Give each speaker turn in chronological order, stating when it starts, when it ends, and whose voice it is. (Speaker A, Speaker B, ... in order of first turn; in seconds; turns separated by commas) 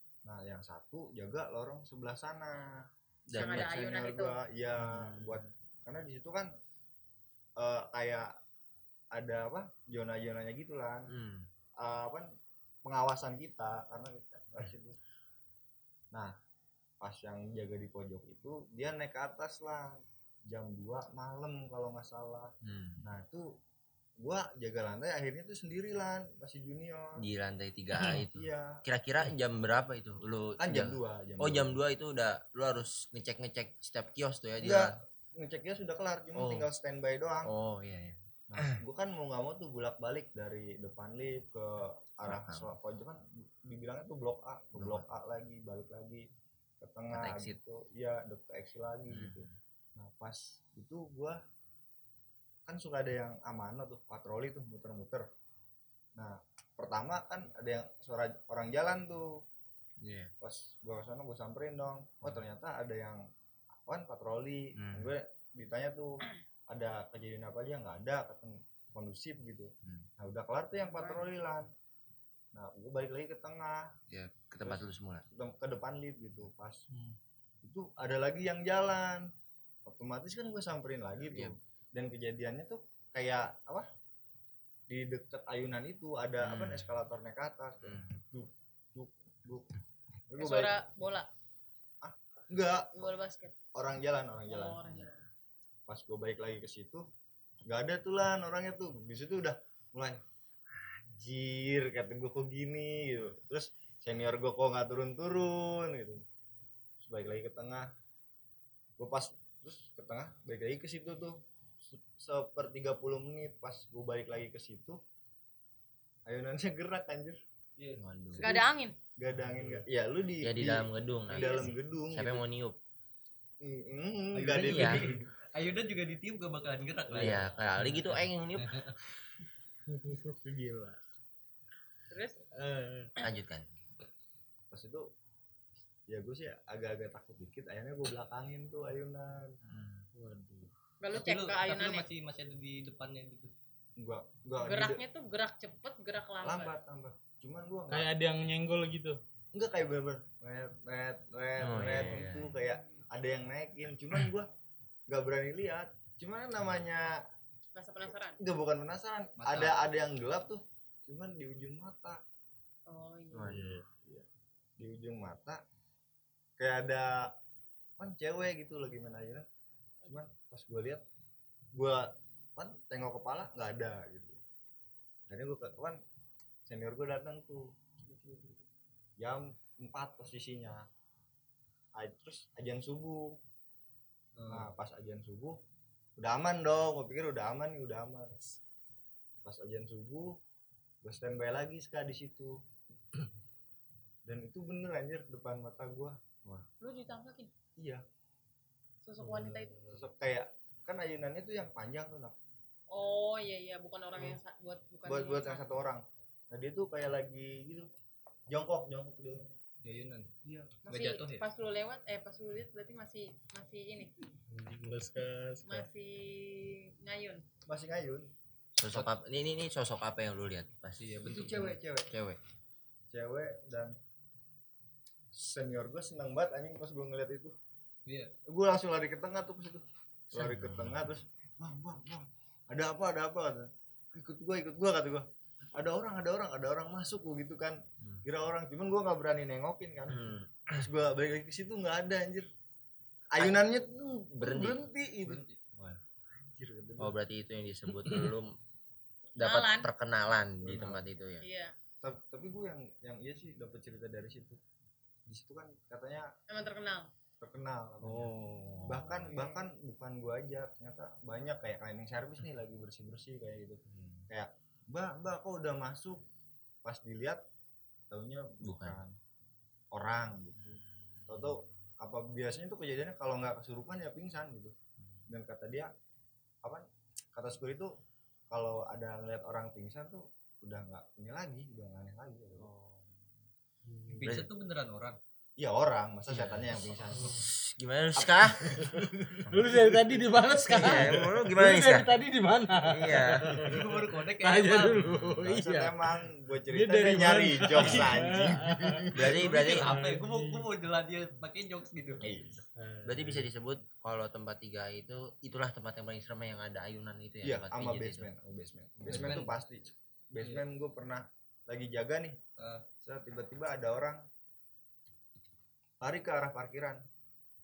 Speaker A: 0.2-6.5, Speaker B: 3.3-3.7, Speaker C: 3.3-4.4, Speaker B: 4.8-5.4, Speaker A: 7.6-8.4, Speaker A: 9.1-11.1, Speaker B: 11.1-11.5, Speaker A: 11.8-12.3, Speaker A: 12.8-15.0, Speaker A: 17.0-23.5, Speaker B: 22.6-23.0, Speaker A: 24.2-27.2, Speaker B: 27.2-35.0, Speaker A: 28.1-28.8, Speaker A: 30.6-31.8, Speaker A: 34.6-37.5, Speaker B: 36.3-36.7, Speaker B: 37.4-38.8, Speaker A: 38.5-46.3, Speaker B: 42.2-42.7, Speaker B: 44.7-45.0, Speaker A: 46.8-51.4, Speaker B: 47.1-47.6, Speaker B: 49.1-49.5, Speaker A: 52.7-55.3, Speaker A: 56.1-59.4, Speaker B: 60.0-60.3, Speaker A: 60.4-63.3, Speaker A: 63.8-71.7, Speaker B: 64.8-65.1, Speaker C: 70.9-71.3, Speaker A: 72.5-73.9, Speaker B: 74.1-75.2, Speaker A: 74.6-76.8, Speaker D: 76.9-77.1, Speaker A: 77.6-79.3, Speaker A: 79.8-83.9, Speaker B: 81.3-81.5, Speaker A: 84.9-89.7, Speaker B: 86.4-86.9, Speaker B: 87.8-88.2, Speaker A: 90.3-90.8, Speaker C: 90.4-91.3, Speaker A: 92.0-93.1, Speaker C: 93.0-93.5, Speaker A: 93.7-95.1, Speaker C: 94.5-95.2, Speaker A: 95.9-97.0, Speaker A: 97.7-106.2, Speaker A: 107.0-107.9, Speaker A: 109.0-115.0, Speaker A: 116.2-117.4, Speaker E: 117.8-118.0, Speaker B: 118.0-118.5, Speaker C: 118.4-119.0, Speaker A: 119.2-122.4, Speaker B: 120.4-122.8, Speaker C: 121.3-121.8, Speaker A: 123.6-125.1, Speaker E: 124.3-127.5, Speaker B: 124.7-125.0, Speaker B: 127.1-128.8, Speaker D: 129.9-131.0, Speaker C: 132.1-132.4, Speaker D: 132.5-133.1, Speaker B: 133.2-133.7, Speaker A: 134.7-135.1, Speaker A: 136.1-139.6, Speaker B: 139.6-140.1, Speaker D: 140.2-140.7, Speaker C: 141.0-142.1, Speaker E: 141.1-143.5, Speaker A: 144.0-145.0, Speaker C: 144.6-146.7, Speaker A: 146.4-148.1, Speaker D: 147.9-149.2, Speaker A: 149.5-154.5, Speaker B: 151.6-152.5, Speaker E: 151.9-152.2, Speaker C: 152.7-153.0, Speaker A: 155.1-157.2, Speaker C: 157.7-158.4, Speaker A: 158.4-162.2, Speaker E: 159.4-159.8, Speaker C: 162.9-163.6, Speaker B: 163.3-163.8, Speaker D: 163.5-163.8, Speaker A: 163.9-164.2, Speaker A: 164.8-165.6, Speaker A: 166.6-167.3, Speaker A: 168.0-169.4, Speaker A: 170.0-171.0, Speaker A: 171.7-174.4, Speaker A: 175.3-176.0, Speaker A: 176.7-178.6, Speaker A: 179.2-180.9, Speaker A: 181.9-183.4, Speaker E: 184.3-184.7, Speaker A: 184.5-185.6, Speaker A: 186.2-188.4, Speaker A: 189.4-190.4, Speaker A: 191.0-192.6, Speaker A: 194.2-196.2, Speaker C: 196.8-197.5, Speaker A: 197.8-198.0, Speaker C: 199.0-199.9, Speaker A: 199.9-202.4, Speaker C: 202.9-205.7, Speaker A: 205.0-207.9, Speaker A: 208.5-209.5, Speaker E: 209.8-211.4, Speaker C: 210.8-214.1, Speaker D: 214.5-215.8, Speaker C: 215.7-217.4, Speaker A: 217.7-218.3, Speaker B: 218.8-221.1, Speaker E: 221.0-221.8, Speaker A: 221.2-222.1, Speaker B: 222.1-222.4, Speaker A: 223.1-223.9, Speaker A: 225.3-227.5, Speaker E: 228.1-228.3, Speaker A: 228.4-242.5, Speaker B: 230.3-231.0, Speaker B: 240.1-240.8, Speaker A: 243.3-245.4, Speaker B: 243.3-243.6, Speaker B: 244.4-244.8, Speaker E: 245.2-245.6, Speaker A: 246.3-247.1, Speaker B: 247.0-248.5, Speaker B: 249.4-251.4, Speaker C: 249.4-249.9, Speaker A: 250.6-251.0, Speaker C: 251.4-251.7, Speaker A: 252.0-254.6, Speaker A: 255.2-256.3, Speaker C: 256.5-257.1, Speaker A: 257.4-258.3, Speaker B: 258.0-259.2, Speaker A: 258.8-266.2, Speaker C: 258.9-259.5, Speaker B: 263.9-264.2, Speaker A: 266.8-267.4, Speaker A: 268.1-269.2, Speaker B: 268.6-269.0, Speaker A: 269.9-274.7, Speaker B: 270.6-271.7, Speaker A: 275.3-275.9, Speaker A: 276.6-277.9, Speaker A: 278.5-282.7, Speaker B: 282.6-282.9, Speaker D: 283.9-284.2, Speaker E: 284.1-285.2, Speaker B: 284.2-284.5, Speaker A: 285.6-287.4, Speaker B: 286.3-288.7, Speaker A: 288.1-290.1, Speaker D: 289.5-293.8, Speaker B: 290.7-292.1, Speaker A: 290.7-291.3, Speaker B: 292.8-293.6, Speaker E: 293.6-295.1, Speaker D: 294.4-296.1, Speaker B: 295.1-295.4, Speaker A: 295.3-299.3, Speaker D: 296.7-299.1, Speaker B: 297.8-298.1, Speaker B: 299.1-299.9, Speaker E: 299.2-302.3, Speaker D: 299.7-300.6, Speaker A: 302.2-302.6, Speaker D: 302.8-303.4, Speaker B: 303.0-308.3, Speaker A: 307.4-312.4, Speaker E: 309.0-309.5, Speaker B: 309.1-309.4, Speaker E: 310.4-310.6, Speaker E: 312.6-312.8, Speaker A: 313.0-314.2, Speaker A: 316.0-317.0